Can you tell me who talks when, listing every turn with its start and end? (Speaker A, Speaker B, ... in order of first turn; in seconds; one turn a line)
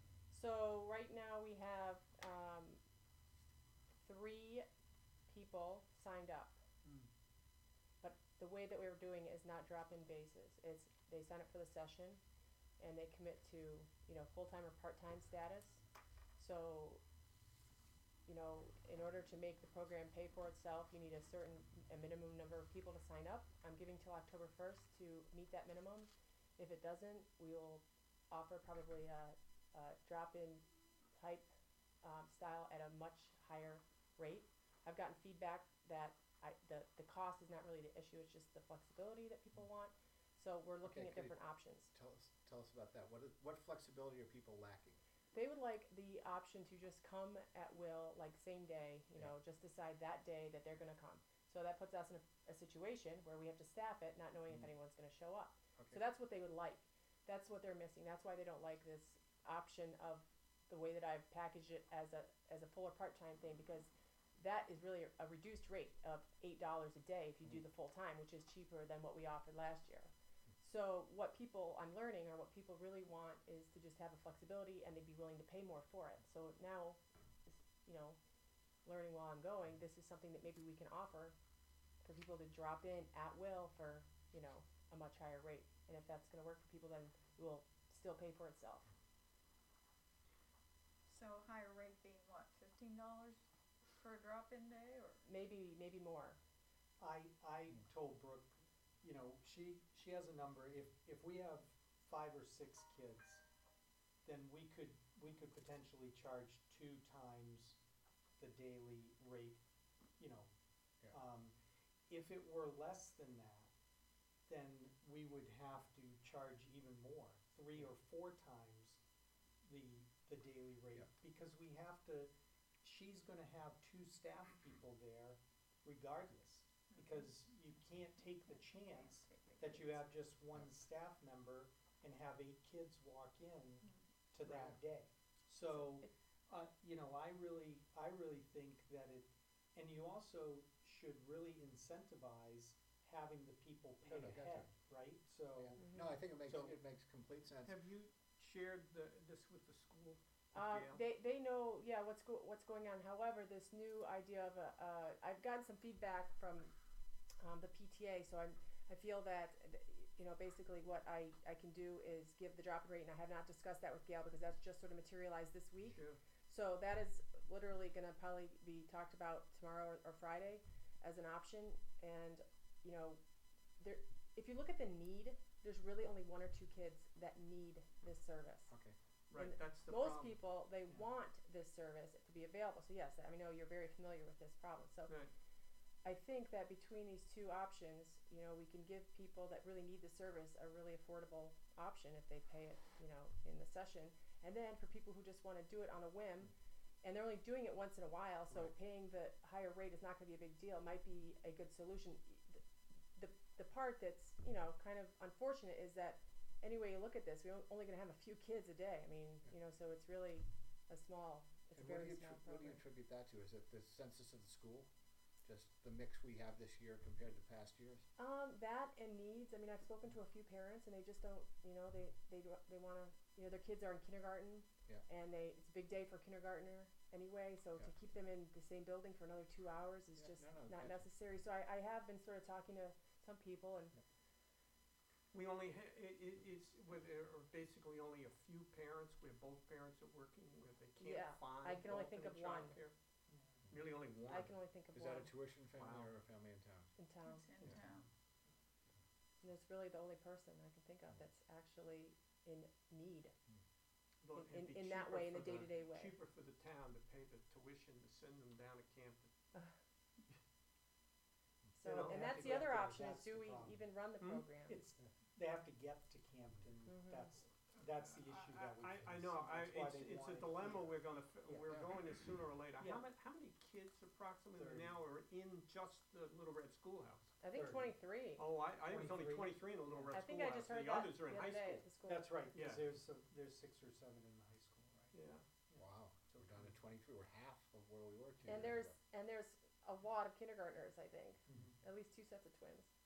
Speaker A: 0.3-2.8
Speaker A: 4.0-4.7
Speaker A: 5.3-6.6
Speaker A: 8.0-12.2
Speaker A: 12.8-15.8
Speaker A: 16.4-17.0
Speaker A: 18.3-30.6
Speaker A: 31.2-31.5
Speaker A: 32.0-41.9
Speaker B: 40.8-41.4
Speaker B: 41.9-45.0
Speaker A: 45.3-78.2
Speaker A: 78.8-81.3
Speaker A: 82.0-88.9
Speaker C: 91.1-93.4
Speaker C: 94.0-95.2
Speaker A: 95.2-96.4
Speaker D: 97.0-103.4
Speaker D: 104.2-107.8
Speaker D: 108.4-109.6
Speaker D: 110.2-110.5
Speaker D: 111.1-111.5
Speaker D: 112.1-113.7
Speaker D: 114.5-119.0
Speaker D: 119.6-122.3
Speaker D: 122.8-145.8
Speaker C: 126.9-127.3
Speaker C: 128.9-130.0
Speaker B: 134.5-134.8
Speaker A: 135.7-136.1
Speaker B: 144.1-144.7
Speaker B: 145.6-147.8
Speaker A: 145.8-146.1
Speaker D: 146.4-146.8
Speaker E: 147.7-151.0
Speaker A: 150.5-156.7
Speaker A: 157.4-173.2
Speaker E: 165.8-166.2
Speaker A: 173.8-178.7
Speaker B: 178.7-179.0
Speaker E: 179.3-180.4
Speaker A: 179.3-185.2
Speaker A: 186.0-196.5
Speaker A: 197.0-202.6
Speaker A: 203.2-212.8
Speaker B: 211.7-214.9
Speaker B: 215.4-218.1
Speaker A: 218.2-233.9
Speaker B: 230.2-231.1
Speaker E: 235.3-242.9
Speaker A: 241.0-242.8
Speaker D: 243.3-243.6
Speaker E: 243.7-244.5
Speaker A: 244.3-245.3
Speaker B: 244.9-246.9
Speaker E: 245.7-246.1
Speaker A: 247.0-247.5
Speaker C: 247.2-248.1
Speaker D: 247.6-248.1
Speaker A: 249.4-253.3
Speaker E: 254.2-259.3
Speaker A: 254.3-256.1
Speaker A: 261.8-264.8
Speaker D: 261.8-263.9
Speaker E: 261.9-262.7
Speaker E: 264.2-264.5
Speaker D: 264.7-271.0
Speaker A: 266.9-267.4
Speaker E: 267.8-277.4
Speaker B: 271.5-271.9
Speaker D: 272.8-273.1
Speaker D: 274.6-275.0
Speaker A: 277.4-278.5
Speaker D: 277.5-277.9
Speaker E: 278.4-281.9
Speaker D: 278.8-280.1
Speaker A: 280.1-282.3
Speaker D: 282.0-285.1
Speaker E: 282.5-282.9
Speaker E: 285.1-285.4
Speaker B: 285.8-289.0
Speaker A: 288.5-292.9
Speaker D: 291.5-291.8